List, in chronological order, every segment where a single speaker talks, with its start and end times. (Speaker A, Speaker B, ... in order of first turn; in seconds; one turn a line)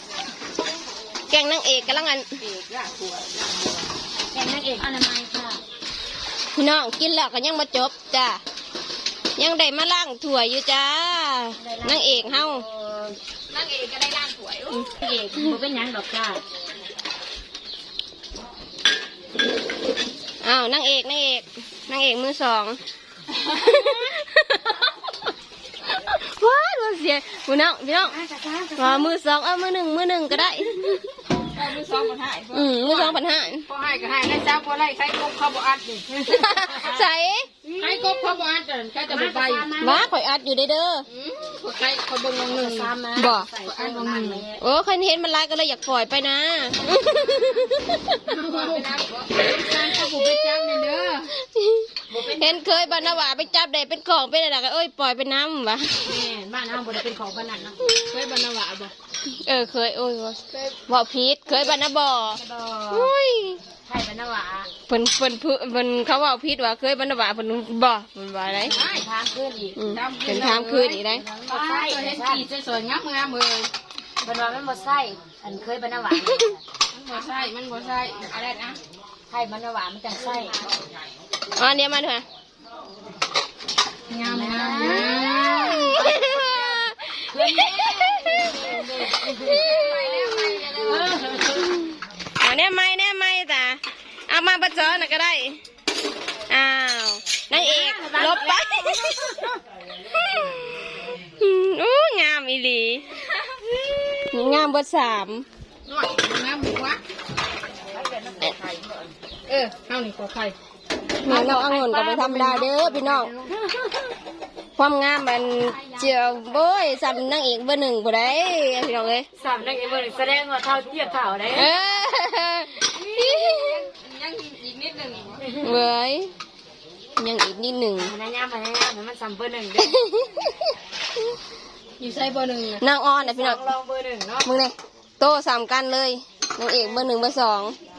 Speaker A: 1.3-2.3
Speaker B: 2.5-3.5
Speaker C: 2.5-3.0
Speaker C: 4.3-5.6
Speaker A: 6.5-8.4
Speaker A: 9.4-12.7
Speaker C: 11.6-13.2
Speaker B: 13.5-14.9
Speaker C: 15.0-16.4
Speaker A: 20.4-22.8
Speaker A: 23.4-25.0
Speaker B: 23.4-24.0
Speaker A: 25.9-28.2
Speaker C: 28.0-29.1
Speaker A: 28.8-31.2
Speaker B: 31.5-36.2
Speaker A: 32.5-33.7
Speaker A: 36.3-37.5
Speaker C: 36.3-37.1
Speaker C: 37.6-38.4
Speaker B: 37.8-39.7
Speaker C: 39.0-40.1
Speaker A: 39.8-41.1
Speaker B: 41.1-42.9
Speaker C: 42.4-44.6
Speaker A: 43.2-43.5
Speaker B: 43.6-44.5
Speaker A: 44.6-48.2
Speaker B: 48.3-51.3
Speaker C: 48.4-49.0
Speaker A: 49.7-56.1
Speaker C: 52.1-53.4
Speaker C: 56.0-57.8
Speaker B: 58.1-58.9
Speaker A: 59.3-63.6
Speaker C: 62.4-63.1
Speaker C: 63.9-64.7
Speaker A: 64.9-68.7
Speaker C: 68.6-69.8
Speaker B: 68.7-69.1
Speaker A: 69.8-71.2
Speaker B: 69.9-73.7
Speaker C: 71.1-72.5
Speaker C: 74.2-76.6
Speaker B: 76.9-78.8
Speaker C: 79.3-80.6
Speaker A: 81.6-82.2
Speaker B: 84.1-86.8
Speaker C: 84.3-91.8
Speaker A: 85.2-88.9
Speaker B: 87.6-88.1
Speaker A: 89.4-90.4
Speaker B: 89.5-91.2
Speaker A: 92.4-95.6
Speaker A: 96.5-99.5
Speaker C: 97.5-99.6
Speaker A: 100.1-103.1
Speaker A: 104.3-105.5
Speaker B: 105.9-107.0
Speaker C: 107.9-109.1
Speaker B: 109.5-110.5
Speaker B: 111.2-113.5
Speaker A: 111.2-113.3
Speaker C: 113.5-114.0
Speaker A: 114.8-119.3
Speaker C: 119.4-121.7
Speaker A: 121.5-123.8
Speaker B: 122.9-125.4
Speaker C: 125.4-125.8
Speaker A: 125.6-126.3
Speaker A: 127.2-128.1
Speaker C: 128.0-130.0
Speaker A: 129.9-130.5
Speaker B: 132.0-132.8
Speaker A: 132.8-133.6
Speaker C: 133.2-134.5
Speaker A: 134.4-137.8